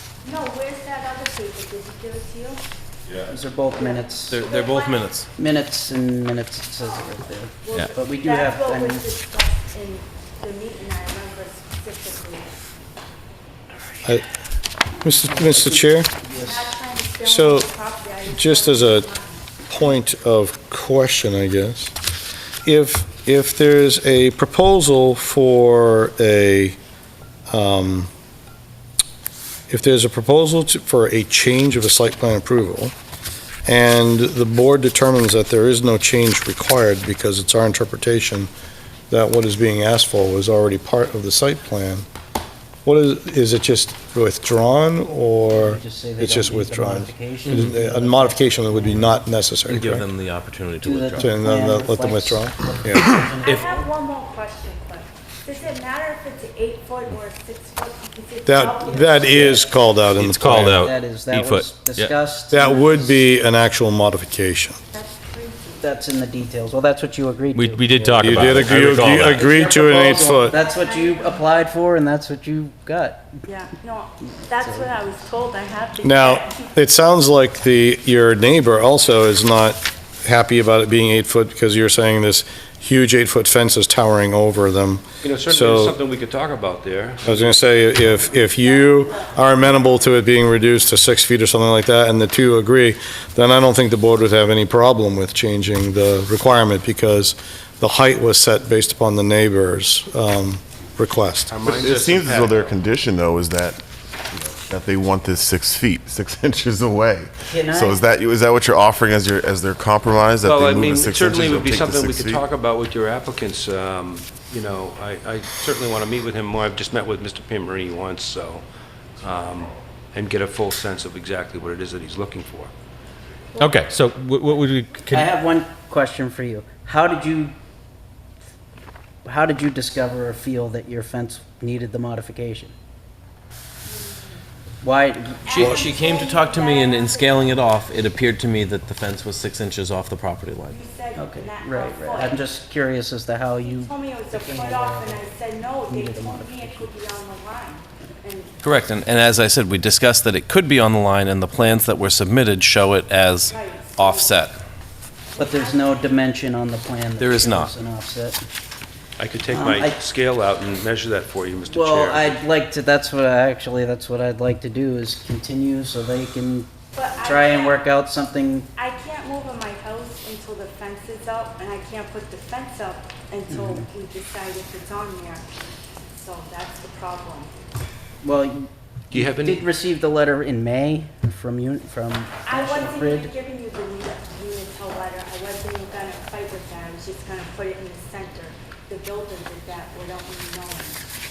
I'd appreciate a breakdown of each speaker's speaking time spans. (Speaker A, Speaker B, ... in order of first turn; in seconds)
Speaker A: 0.2-2.6, 3.8-5.1, 6.8-12.6, 16.4-19.5, 53.4-59.7, 64.9-65.9, 70.2-71.5, 73.5-76.7, 88.4-89.4, 133.9-134.4, 135.4-137.9, 140.7-142.5, 143.6-148.6, 153.5-154.4, 155.3-156.2, 166.9-167.9, 168.8-175.5, 176.1-177.5, 182.5-191.0
Speaker B: 3.3-4.4, 5.4-9.1, 15.3-16.7, 45.5-49.2, 50.8-53.9, 58.9-59.7, 60.6-63.1, 65.8-73.3, 74.6-74.9, 107.5-108.0, 125.1-127.5, 129.2-132.7, 134.8-135.9, 141.2-145.3, 145.9-146.9, 155.4-158.4, 159.5-160.0, 161.7-168.7, 173.5-173.8, 178.2-183.3
Speaker C: 4.3-5.3, 49.7-51.3, 135.6-140.8, 148.6-154.6, 157.2-157.7
Speaker D: 15.0-16.1, 17.2-17.7, 18.3-19.1, 19.7-21.9, 22.6-26.8, 27.5-28.1, 29.7-32.9, 33.7-38.5, 39.1-42.1, 42.9-50.0, 51.2-52.6, 58.5-60.9, 62.5-64.8, 68.2-70.6, 76.0-86.0, 87.2-101.6
Speaker E: 52.9-53.1, 101.6-112.4
Speaker F: 60.1-62.1, 67.5-69.5, 123.6-125.3
Speaker G: 85.2-87.5, 101.5-102.8, 110.4-118.6, 119.2-122.7, 159.2-162.5, 179.1-179.7